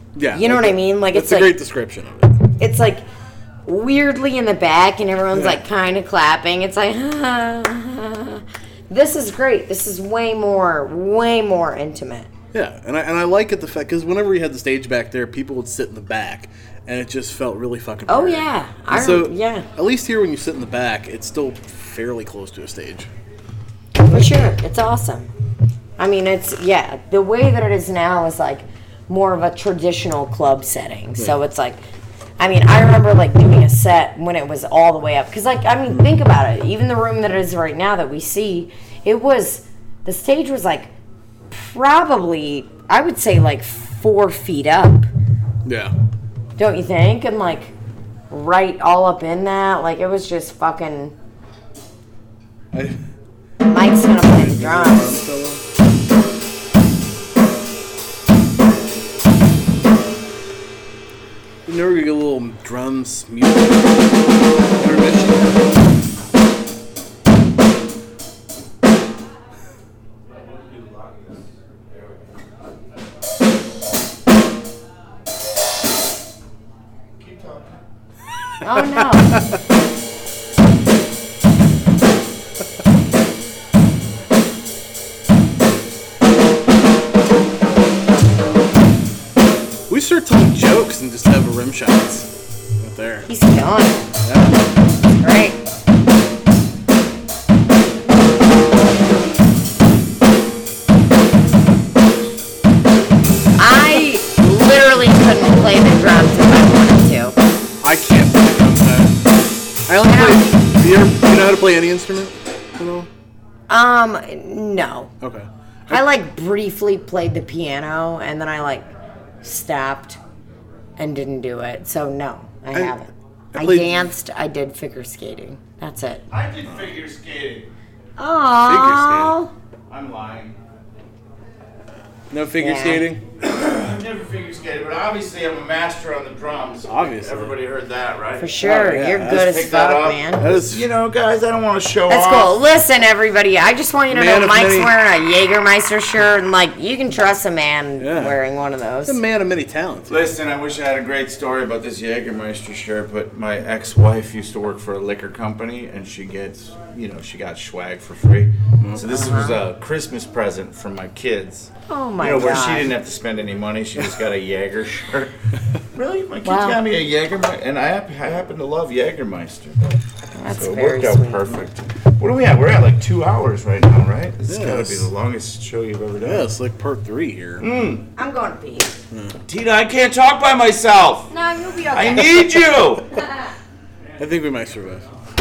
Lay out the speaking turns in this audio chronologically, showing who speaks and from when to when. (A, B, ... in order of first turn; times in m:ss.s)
0:00.2-0:02.5 A
0:00.3-0:01.6 B
0:02.6-0:03.0 B
0:03.7-0:12.3 B
0:05.3-0:05.6 A
0:12.5-0:23.1 A
0:18.1-0:19.7 B
0:24.0-0:25.3 B
0:26.0-0:31.8 B
0:32.4-0:40.9 B
0:41.5-0:45.1 B
0:45.6-0:45.9 A
0:46.6-0:47.7 B
0:48.3-0:51.2 B
0:52.7-0:53.0 A
0:53.7-0:55.2 B
0:54.3-0:55.6 A
1:01.7-1:04.1 A
1:04.8-1:05.6 A
1:10.5-1:12.2 C
1:17.2-1:17.8 C
1:18.6-1:19.4 B
1:29.9-1:32.3 A
1:32.8-1:33.3 A
1:33.3-1:34.1 B
1:34.2-1:34.6 A
1:35.2-1:35.6 B
1:43.6-1:47.4 B
1:47.8-1:49.2 A
1:49.9-1:53.1 A
1:50.0-1:50.5 B
1:53.7-1:55.1 B
1:55.2-1:56.0 A
1:55.9-1:58.9 B
1:59.4-2:00.2 B
2:01.0-2:06.2 B
2:03.5-2:04.1 A
2:06.3-2:07.7 C
2:08.2-2:09.5 B
2:08.6-2:09.4 A
2:09.9-2:10.6 C
2:12.3-2:13.2 A
2:12.6-2:13.1 B
2:13.4-2:22.6 C
2:16.9-2:17.5 A
2:18.4-2:20.4 B
2:18.6-2:19.5 A
2:20.4-2:20.9 A
2:22.1-2:29.2 B
2:24.1-2:24.9 A
2:28.0-2:28.4 A
2:29.0-2:30.2 A
2:30.1-2:45.3 C
2:38.8-2:39.1 A
2:39.0-2:39.6 B
2:41.9-2:42.9 B
2:45.9-2:49.9 C
2:46.4-2:46.8 B
2:50.4-2:51.4 B
2:50.5-2:56.5 C
2:54.5-2:55.1 A
2:56.2-2:57.7 A
2:57.6-2:58.1 C
2:58.2-2:59.0 B
2:59.1-2:59.4 A
2:59.4-3:01.3 C
3:01.3-3:03.5 B
3:01.9-3:03.2 C
3:04.2-3:05.1 A